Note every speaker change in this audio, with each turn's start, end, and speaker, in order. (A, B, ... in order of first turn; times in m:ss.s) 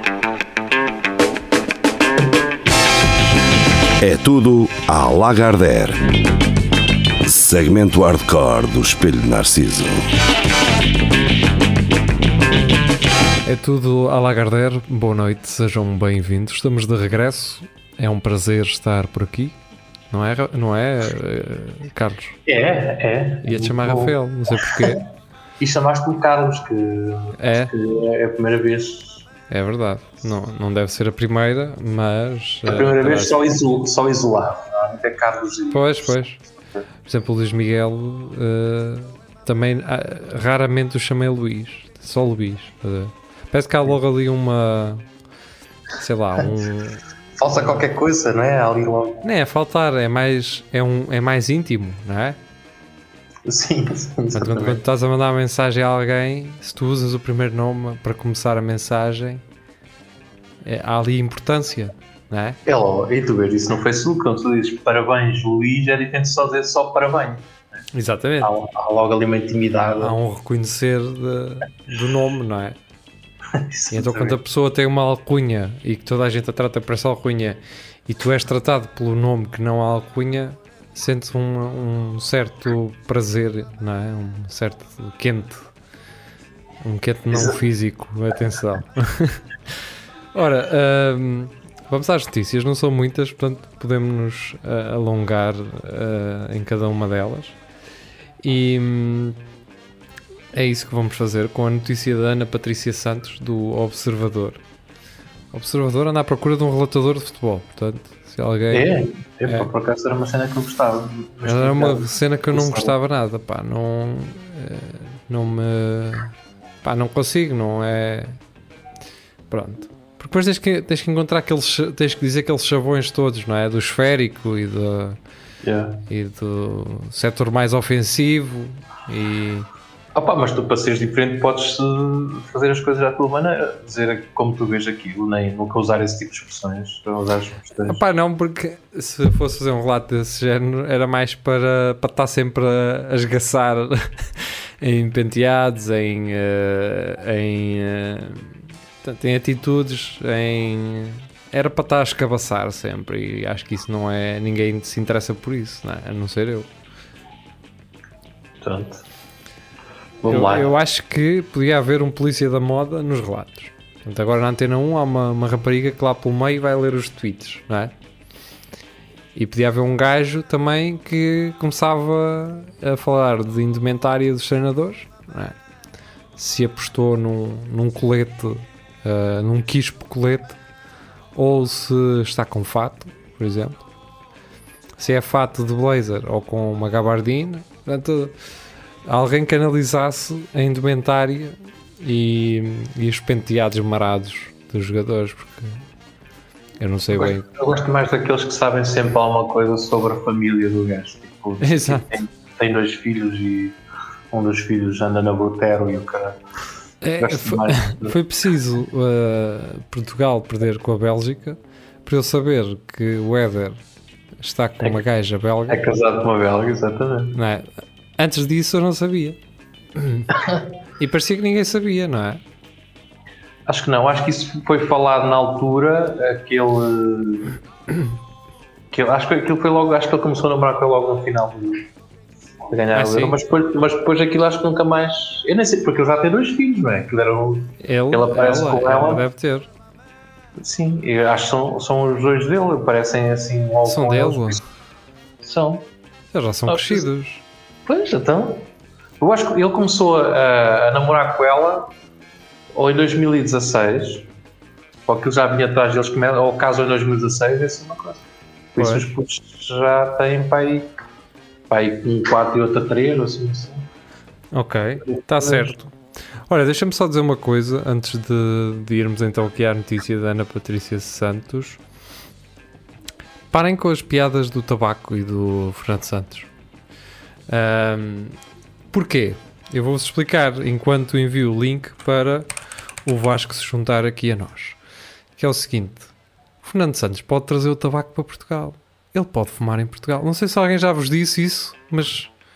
0:04.0-0:06.0 A
0:07.2-0:10.0 A
0:13.4-0:19.6 B
0:20.1-0:22.4 B
0:22.5-0:25.0 C
0:23.4-0:25.0 B
0:25.6-0:29.3 C
0:27.4-0:27.7 B
0:29.5-0:33.4 B
0:32.7-0:36.1 C
0:35.7-0:36.4 B
0:37.1-0:45.0 B
0:46.0-0:47.0 B
0:47.4-0:49.3 C
0:49.2-0:52.4 B
0:53.5-0:54.8 C
0:54.3-0:59.4 B
1:00.6-1:02.6 B
1:02.7-1:07.5 C
1:07.9-1:08.5 B
1:08.4-1:10.2 C
1:10.0-1:12.8 B
1:13.5-1:14.4 C
1:13.9-1:25.7 B
1:26.8-1:37.6 B
1:38.4-1:39.4 B
1:40.5-1:44.6 B
1:45.5-1:48.9 B
1:48.7-1:52.9 C
1:51.4-1:56.3 B
1:56.8-1:58.4 B
1:59.5-2:05.2 B
2:05.6-2:06.0 C
2:06.1-2:09.7 B
2:10.2-2:18.0 C
2:17.9-2:36.7 B
2:38.6-2:39.0 C
2:40.2-2:40.7 C
2:40.3-2:47.9 B
2:49.4-2:55.6 B
2:56.4-3:00.6 B
3:01.4-3:03.8 B
3:05.0-3:08.4 B
3:09.1-3:15.8 B
3:16.8-3:17.5 B
3:17.1-3:23.8 C
3:21.6-3:22.1 B
3:24.3-3:26.4 C
3:27.0-3:33.8 B
3:27.2-3:28.2 C
3:34.4-3:35.8 B
3:35.7-3:37.4 C
3:37.3-3:39.4 B
3:40.0-3:40.4 B
3:41.0-3:42.4 B
3:43.7-3:47.5 C
3:48.9-3:51.9 C
3:52.7-3:59.2 C
3:52.9-3:53.4 B
3:57.8-3:59.7 B
4:00.6-4:04.6 C
4:03.8-4:04.6 B
4:05.4-4:05.9 C
4:06.3-4:07.4 B
4:06.7-4:07.1 C
4:07.9-4:08.7 C
4:09.2-4:11.9 C
4:12.8-4:14.3 C
4:15.1-4:18.2 C
4:18.8-4:20.9 C
4:18.8-4:19.1 B
4:21.7-4:23.9 C
4:24.5-4:25.9 B
4:25.1-4:25.7 C
4:26.5-4:31.8 B
4:33.5-4:36.5 B
4:37.5-4:38.4 B
4:38.9-4:42.5 B
4:43.0-4:44.8 B
4:45.4-4:46.1 B
4:46.6-4:52.3 B